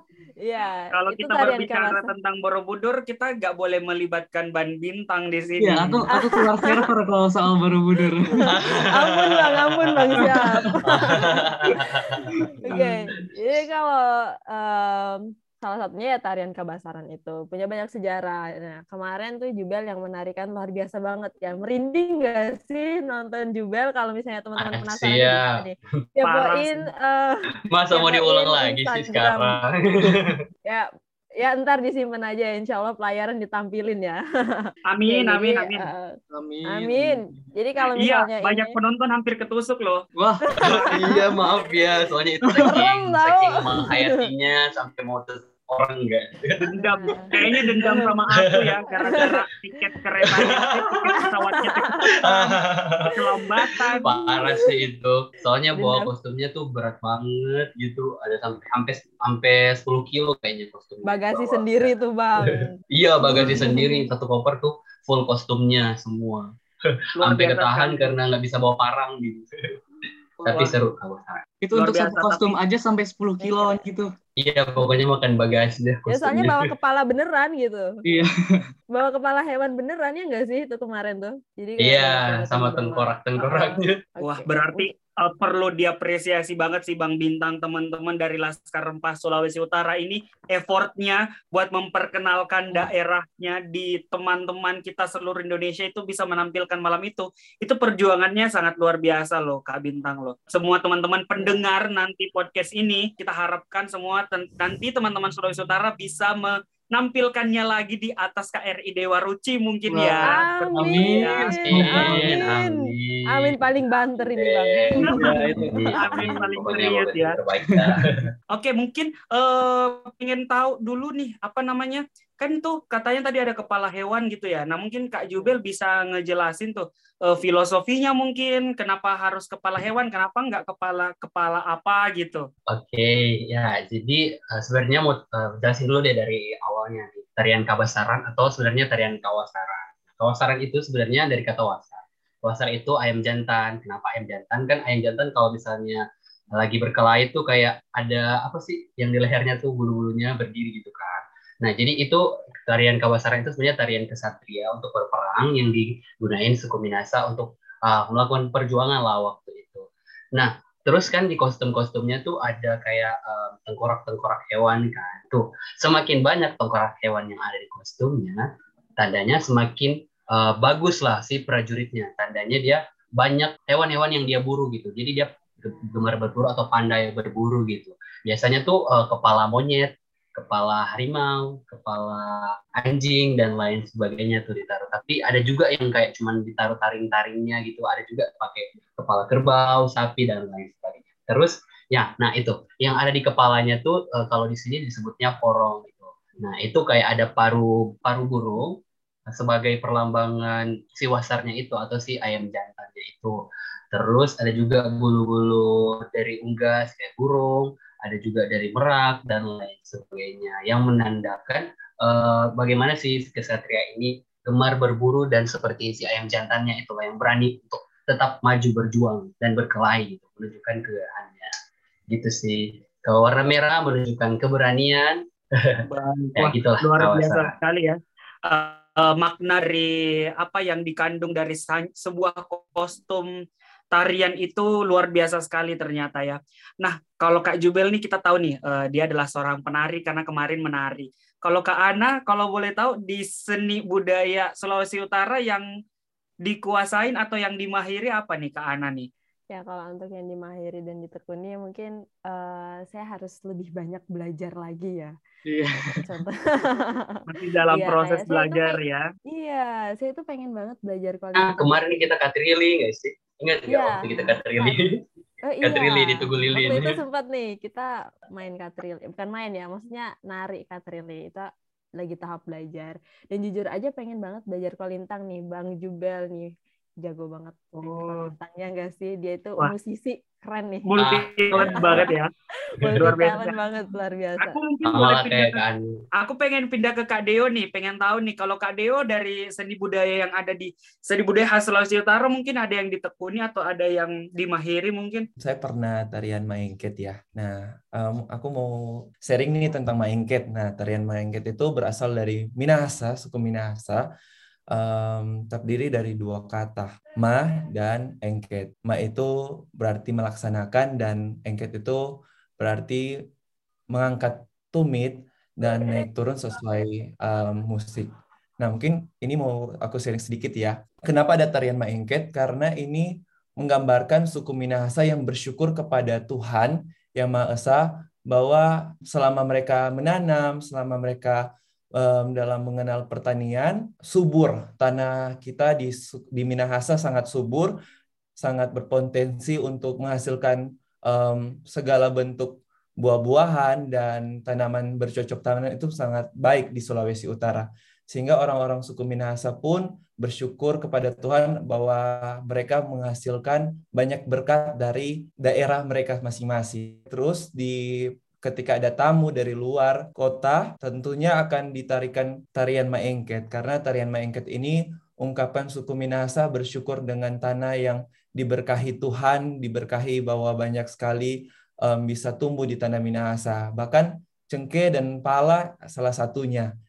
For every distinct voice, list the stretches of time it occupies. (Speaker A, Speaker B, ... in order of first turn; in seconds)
Speaker A: 0.4-2.1, 6.1-6.9, 8.3-11.8, 12.4-29.6, 30.6-36.2, 36.7-38.7, 40.5-41.7, 42.6-44.1, 46.7-48.1, 49.0-49.3, 51.0-52.5, 53.7-54.7, 55.8-56.1, 61.0-64.1, 73.4-73.8, 76.1-77.9, 78.9-84.9, 101.4-101.6, 110.2-116.6, 249.5-255.1, 255.8-262.0, 263.7-264.8, 265.4-276.5, 277.0-280.9, 281.6-284.6
Speaker B: 0.9-6.1, 26.2-26.9, 34.9-35.9, 38.0-40.0, 46.6-52.4, 53.1-54.1, 67.2-68.1, 71.7-72.5, 84.2-110.4, 110.9-112.0, 115.1-117.4, 118.5-132.5, 225.8-233.3, 233.9-245.7, 246.4-249.1, 257.3-259.0, 277.8-278.3, 280.9-282.3, 283.0-283.5, 284.4-285.6, 286.2-295.2
Speaker C: 5.6-8.6, 10.1-10.8, 11.7-12.9, 36.3-37.4, 40.1-41.2, 42.4-42.8, 71.6-74.1, 78.0-78.7, 109.9-112.5, 115.0-115.9, 117.6-118.0, 255.5-256.1
Speaker D: 8.5-9.2, 10.8-13.5, 24.6-25.6, 27.7-30.4, 40.6-49.3, 50.3-51.0, 52.2-53.1, 54.0-61.9, 62.5-69.7, 70.4-71.4, 74.4-76.7, 81.8-84.0, 111.7-113.5, 114.2-118.2, 132.7-221.5, 222.1-225.8, 226.3-227.5, 261.4-265.0, 265.6-267.0, 281.0-282.1, 282.9-283.1, 284.8-285.9
Speaker E: 295.4-304.1, 304.7-313.1, 313.9-337.8, 338.4-376.7